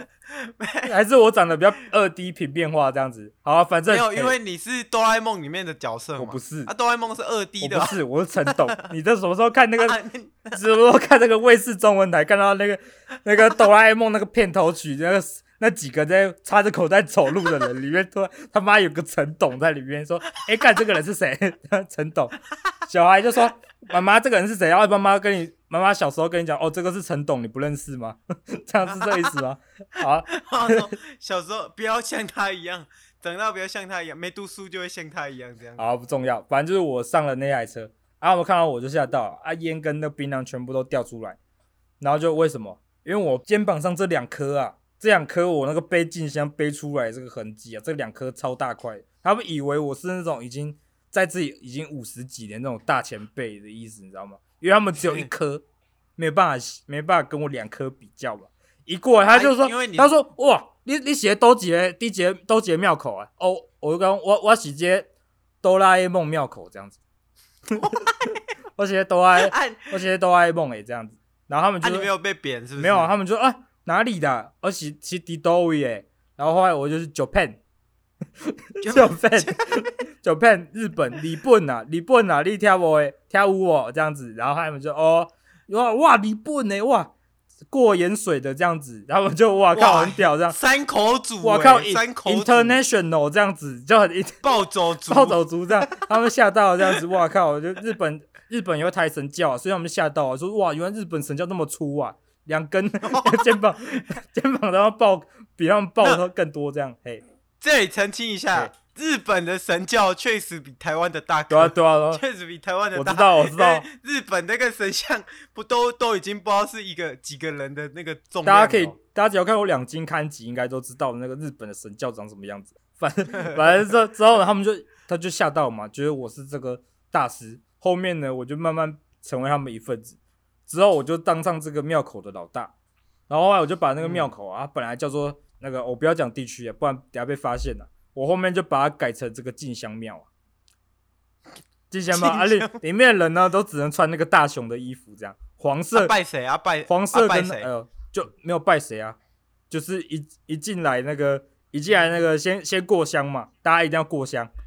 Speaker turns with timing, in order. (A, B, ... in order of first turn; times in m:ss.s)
0:00.3-0:00.9 A
0:00.9-0:04.4 B
0:03.9-0:08.8 A
0:06.2-0:06.7 B
0:07.6-0:10.0 B
0:09.8-0:10.6 A
0:10.5-0:22.4 B
0:22.9-0:30.9 B
0:28.9-0:29.3 A
0:30.3-0:35.9 A
0:35.8-0:41.4 B
0:42.0-0:55.6 B
0:55.0-0:55.3 A
0:56.2-1:05.1 B
0:59.3-1:00.2 A
1:05.6-1:07.0 B
1:07.7-1:08.4 A
1:08.8-1:12.1 B
1:09.4-1:09.9 A
1:11.8-1:13.1 A
1:12.8-1:17.6 B
1:18.4-1:27.1 B
1:18.8-1:19.8 A
1:27.7-1:30.6 B
1:29.7-1:32.8 A
1:31.4-1:34.4 B
1:34.4-1:36.1 A
1:35.1-1:47.2 B
1:43.0-1:43.5 A
1:47.6-1:59.0 A
1:51.5-1:52.2 B
1:53.0-1:53.9 B
1:58.4-2:12.7 B
2:13.3-2:20.3 B
2:14.0-2:14.3 A
2:21.9-2:26.2 B
2:22.1-2:22.8 A
2:25.9-2:27.7 A
2:26.9-2:29.2 B
2:29.7-2:34.5 B